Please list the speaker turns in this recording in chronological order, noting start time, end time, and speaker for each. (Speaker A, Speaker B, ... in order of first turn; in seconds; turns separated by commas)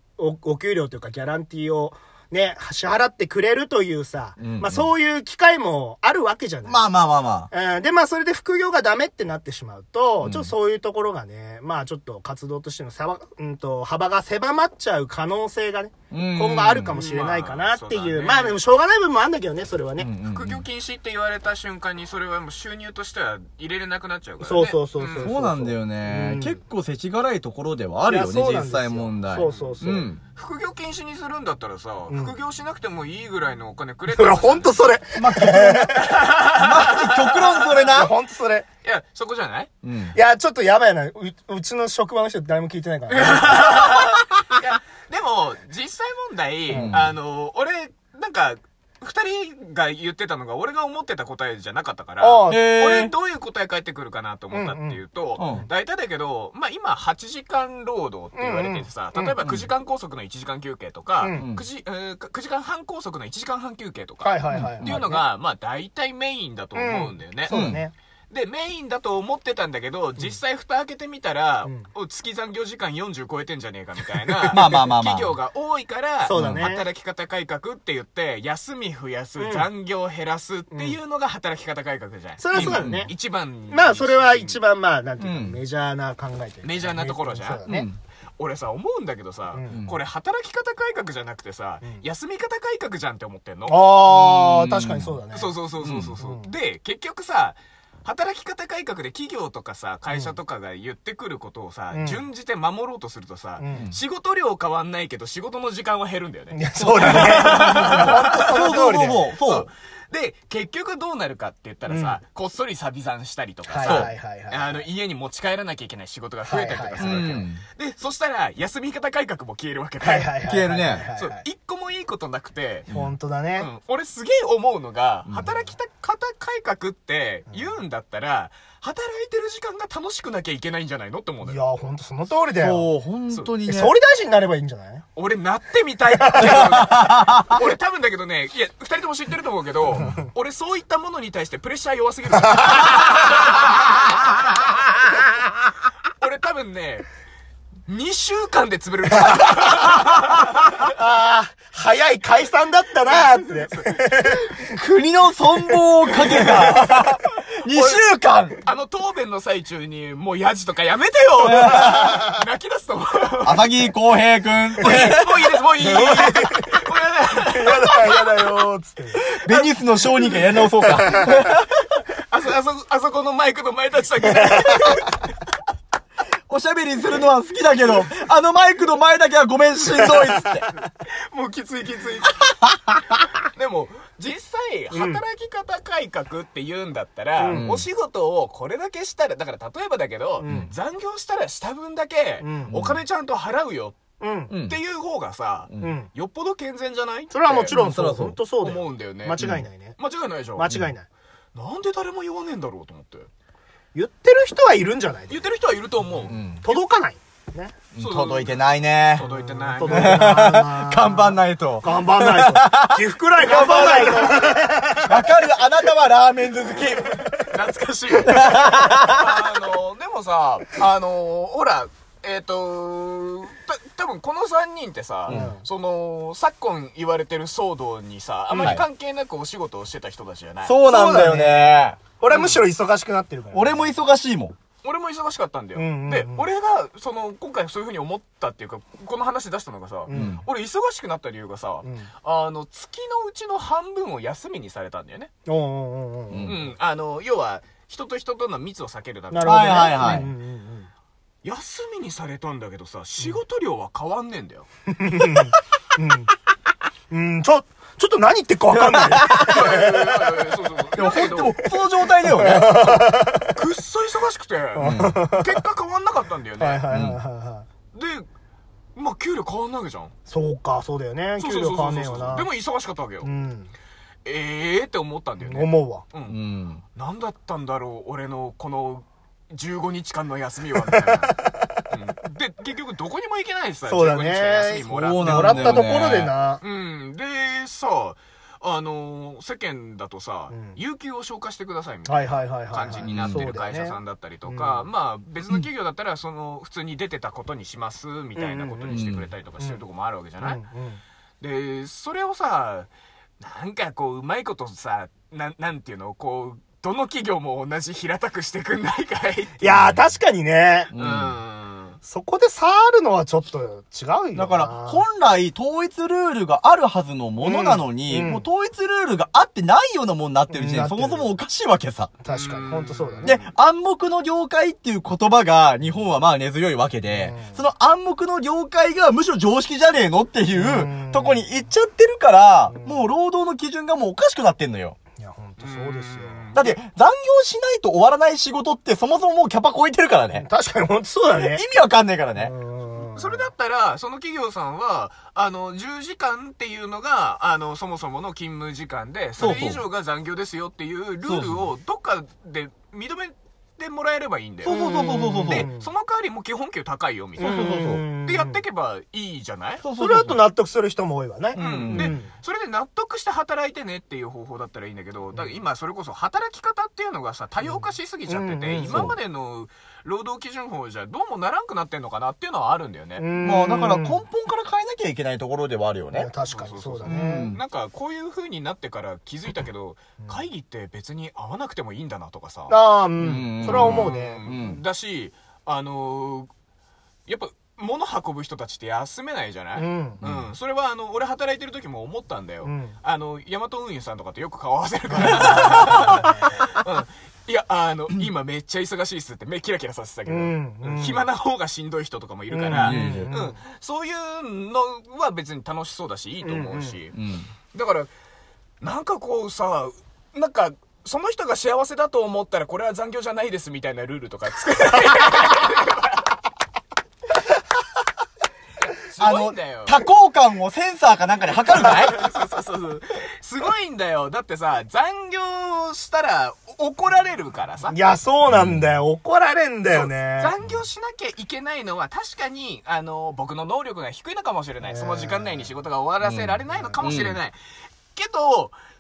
Speaker A: 0.2-6.8, Speaker B: 4.4-4.8, Speaker B: 6.6-7.5, Speaker A: 7.5-20.1, Speaker B: 10.2-10.5, Speaker B: 16.1-17.0, Speaker C: 16.9-18.6, Speaker B: 20.0-20.6, Speaker C: 20.2-25.4, Speaker A: 24.4-26.6, Speaker B: 25.2-30.2, Speaker A: 28.0-30.1, Speaker C: 29.5-34.9, Speaker A: 32.1-32.4, Speaker A: 34.1-36.1, Speaker B: 35.1-38.1, Speaker C: 35.9-38.1, Speaker A: 37.9-38.6, Speaker C: 38.8-39.7, Speaker B: 39.8-40.1, Speaker A: 40.1-44.2, Speaker C: 43.1-67.7, Speaker B: 46.7-47.1, Speaker A: 46.7-47.0, Speaker A: 52.2-52.8, Speaker B: 52.5-53.1, Speaker A: 54.5-55.0, Speaker B: 55.4-55.6, Speaker A: 58.4-59.4, Speaker A: 61.2-61.5, Speaker B: 61.4-61.6, Speaker A: 64.2-65.2, Speaker B: 64.5-65.1, Speaker A: 66.7-67.9, Speaker B: 67.5-67.8, Speaker C: 68.3-84.6, Speaker B: 74.5-75.3, Speaker A: 76.2-76.8, Speaker B: 76.3-76.7, Speaker A: 79.4-79.7, Speaker A: 80.7-81.0, Speaker A: 82.4-83.1, Speaker B: 82.5-83.1, Speaker A: 83.7-87.9, Speaker B: 85.2-85.6, Speaker C: 86.6-87.7, Speaker B: 87.7-88.0, Speaker C: 88.4-93.9, Speaker A: 89.5-89.8, Speaker A: 93.7-95.5, Speaker B: 94.0-95.2, Speaker C: 95.3-108.7, Speaker B: 95.8-96.1, Speaker A: 96.2-96.5, Speaker A: 100.1-100.3, Speaker A: 101.9-102.2, Speaker A: 103.6-103.9, Speaker A: 106.5-109.3, Speaker B: 106.8-109.7, Speaker C: 109.4-120.4, Speaker A: 111.9-112.2, Speaker A: 113.7-114.8, Speaker B: 113.8-114.1, Speaker A: 116.4-117.4, Speaker B: 117.0-117.6, Speaker A: 120.0-121.4, Speaker B: 120.5-121.1, Speaker C: 121.0-122.9, Speaker B: 122.9-123.1, Speaker A: 122.9-123.7, Speaker C: 123.6-131.6, Speaker B: 125.3-125.7, Speaker A: 127.5-127.7, Speaker A: 131.4-132.9, Speaker B: 132.6-133.9, Speaker A: 133.7-135.0, Speaker C: 135.2-144.3, Speaker A: 136.2-136.7, Speaker B: 136.4-137.5, Speaker A: 140.0-140.2, Speaker C: 146.2-147.1, Speaker C: 147.9-150.8, Speaker A: 149.2-149.8, Speaker A: 150.4-154.7, Speaker C: 153.1-153.9, Speaker B: 154.6-158.6, Speaker A: 156.2-156.9, Speaker C: 156.3-157.0, Speaker C: 157.7-158.1, Speaker C: 158.6-163.7, Speaker B: 161.4-162.2, Speaker B: 163.4-165.3, Speaker C: 164.8-168.6, Speaker A: 165.8-166.7, Speaker A: 167.4-169.2, Speaker C: 169.3-169.7, Speaker B: 169.4-171.7, Speaker A: 170.8-171.3, Speaker C: 172.1-175.3, Speaker B: 176.5-180.7, Speaker C: 181.0-182.6, Speaker C: 183.4-194.0, Speaker A: 184.9-185.2, Speaker A: 187.4-187.7, Speaker B: 187.5-187.8, Speaker A: 190.4-190.7, Speaker B: 190.4-190.7, Speaker A: 192.4-192.8, Speaker B: 192.7-193.0, Speaker A: 194.2-194.5, Speaker B: 194.5-194.8, Speaker C: 194.6-197.8, Speaker A: 195.8-196.1, Speaker A: 197.3-200.0, Speaker B: 197.7-198.3, Speaker C: 198.6-199.4, Speaker C: 200.0-200.7, Speaker A: 200.5-201.1, Speaker C: 201.5-203.3, Speaker A: 203.9-205.4, Speaker C: 205.3-206.8, Speaker B: 206.3-206.6, Speaker A: 206.6-207.7, Speaker B: 207.9-209.3, Speaker C: 207.9-208.5, Speaker C: 209.1-210.4, Speaker A: 209.2-215.2, Speaker B: 209.8-214.4, Speaker C: 213.4-214.6, Speaker B: 215.0-217.2, Speaker C: 217.4-230.8, Speaker B: 218.2-219.4, Speaker B: 225.3-225.5, Speaker A: 225.3-225.6, Speaker A: 228.5-228.8, Speaker B: 230.6-232.0, Speaker A: 230.8-233.9, Speaker C: 232.3-232.6, Speaker B: 233.5-234.5, Speaker C: 234.8-245.3, Speaker A: 235.7-236.5, Speaker A: 240.1-240.4, Speaker B: 240.1-240.4, Speaker A: 241.8-242.1, Speaker A: 245.4-246.7, Speaker B: 246.3-246.6, Speaker C: 246.4-250.2, Speaker A: 249.3-250.9, Speaker B: 249.4-250.3, Speaker C: 251.4-254.7, Speaker A: 254.9-256.3, Speaker A: 257.1-260.2, Speaker B: 259.2-259.5, Speaker C: 259.3-261.6, Speaker B: 260.9-263.0, Speaker A: 262.2-263.5, Speaker C: 263.5-266.8, Speaker A: 264.7-265.6, Speaker B: 264.8-265.2, Speaker A: 266.6-267.6, Speaker B: 266.9-267.2, Speaker C: 267.9-268.3, Speaker C: 268.9-270.1, Speaker A: 270.3-272.5, Speaker C: 271.4-273.3, Speaker A: 273.2-273.7, Speaker C: 274.2-276.4, Speaker A: 275.4-276.0, Speaker B: 276.3-276.8, Speaker C: 276.9-281.4, Speaker A: 280.8-281.7, Speaker C: 281.9-286.1, Speaker A: 283.9-286.6, Speaker B: 284.9-286.3, Speaker C: 286.6-300.6, Speaker A: 290.5-290.8, Speaker A: 292.0-294.9, Speaker B: 293.0-293.5, Speaker A: 298.4-299.0, Speaker B: 298.9-299.3, Speaker A: 300.4-301.0, Speaker C: 301.4-302.9, Speaker C: 303.4-309.9, Speaker A: 309.6-310.9, Speaker C: 310.9-312.0, Speaker B: 310.9-311.4, Speaker A: 312.0-315.0, Speaker B: 314.3-322.1, Speaker A: 317.4-318.4, Speaker A: 320.5-321.3, Speaker A: 322.2-323.4, Speaker C: 322.3-323.5, Speaker B: 323.2-334.9, Speaker A: 327.1-327.6, Speaker A: 330.5-331.4, Speaker A: 332.7-333.1, Speaker A: 335.2-336.4, Speaker C: 335.6-336.8, Speaker B: 336.5-340.5, Speaker A: 340.4-341.6, Speaker B: 341.3-342.5, Speaker A: 342.4-343.5, Speaker C: 343.0-354.7, Speaker B: 349.4-349.8, Speaker B: 351.2-351.7, Speaker B: 354.6-355.7, Speaker A: 354.6-355.9, Speaker C: 355.4-359.8, Speaker B: 357.4-358.0, Speaker A: 357.4-358.6, Speaker B: 359.8-360.4, Speaker A: 360.0-362.3, Speaker B: 361.5-362.1, Speaker C: 361.6-373.3, Speaker A: 367.6-369.1, Speaker B: 368.9-369.1, Speaker A: 373.2-374.2, Speaker B: 373.4-376.3, Speaker A: 376.1-377.5, Speaker C: 376.5-382.7, Speaker B: 377.0-377.6, Speaker A: 382.7-384.5, Speaker B: 383.2-384.8, Speaker C: 383.6-386.5, Speaker C: 387.3-407.1, Speaker A: 389.7-390.2, Speaker B: 390.2-390.5, Speaker A: 392.6-392.9, Speaker A: 395.3-396.6, Speaker A: 400.2-401.3, Speaker A: 402.5-403.6, Speaker B: 402.8-403.3, Speaker A: 406.4-407.0, Speaker B: 407.1-407.5, Speaker C: 407.7-408.1, Speaker C: 408.8-416.4, Speaker C: 419.0-420.0, Speaker B: 419.2-422.2, Speaker C: 421.7-427.9, Speaker A: 427.9-430.5, Speaker B: 428.5-428.9, Speaker C: 429.9-437.6, Speaker A: 434.8-435.7, Speaker B: 436.2-437.4, Speaker A: 436.7-437.0, Speaker C: 438.1-438.8